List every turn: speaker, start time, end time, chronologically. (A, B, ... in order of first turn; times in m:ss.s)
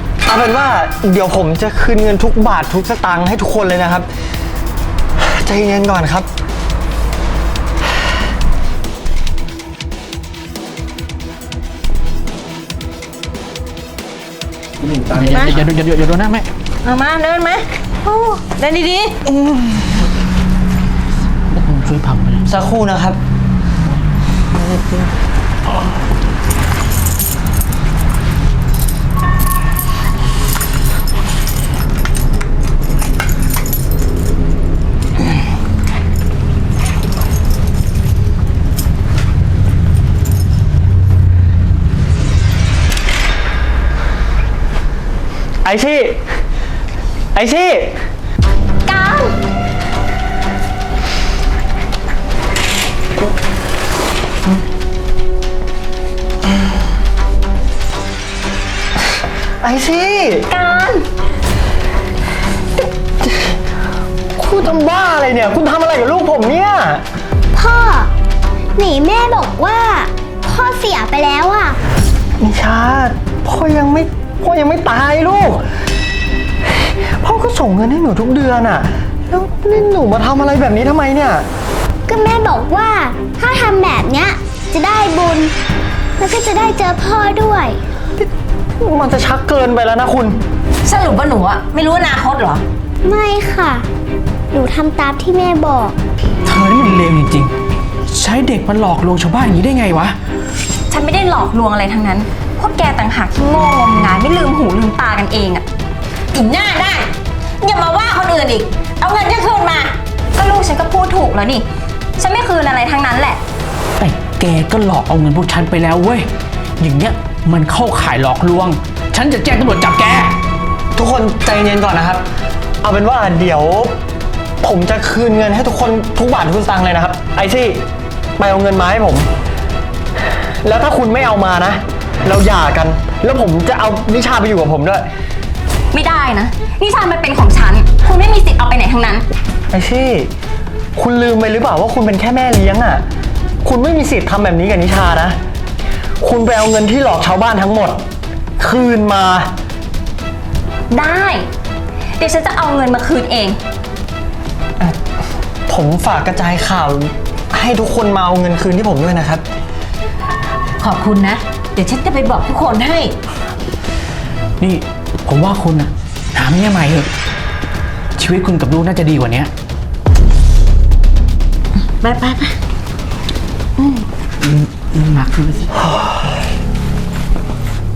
0:00.2-0:04.1 A
0:05.2-0:06.3 A
0:15.0-0:16.5 B
0:16.8-0:19.1 C
0:21.5-0:22.4 B
0:22.5-0:23.2 A
0:45.6-0:46.2 A
0:47.3-0:48.0 A
0:48.9-0:49.3 C
0:59.6-1:00.5 A
1:00.5-1:01.0 C
1:04.3-1:07.0 A
1:07.5-1:08.1 D
1:08.8-1:11.8 D
1:12.4-1:15.6 A
1:16.6-1:21.4 A
1:22.1-1:25.5 D
1:26.2-1:27.8 D
1:28.8-1:30.4 A
1:30.8-1:32.6 E
1:33.0-1:33.9 D
1:34.5-1:36.0 D
1:36.4-1:37.5 B
1:38.1-1:40.2 B
1:40.9-1:45.6 C
1:46.3-1:50.0 E
1:50.3-1:51.6 C
1:52.2-1:53.4 C
1:54.0-1:56.3 B
1:56.8-2:00.4 B
2:01.0-2:02.2 A
2:02.8-2:04.0 A
2:04.6-2:07.8 A
2:08.4-2:09.3 A
2:10.6-2:15.0 A
2:15.9-2:19.2 C
2:19.7-2:20.3 A
2:21.0-2:23.0 A
2:23.6-2:25.4 A
2:26.2-2:28.0 A
2:28.6-2:29.5 A
2:30.9-2:31.5 C
2:32.2-2:33.6 C
2:35.7-2:39.4 A
2:40.8-2:43.1 E
2:44.6-2:47.1 B
2:48.2-2:49.5 B
2:52.0-2:52.6 E
2:54.4-2:55.8 B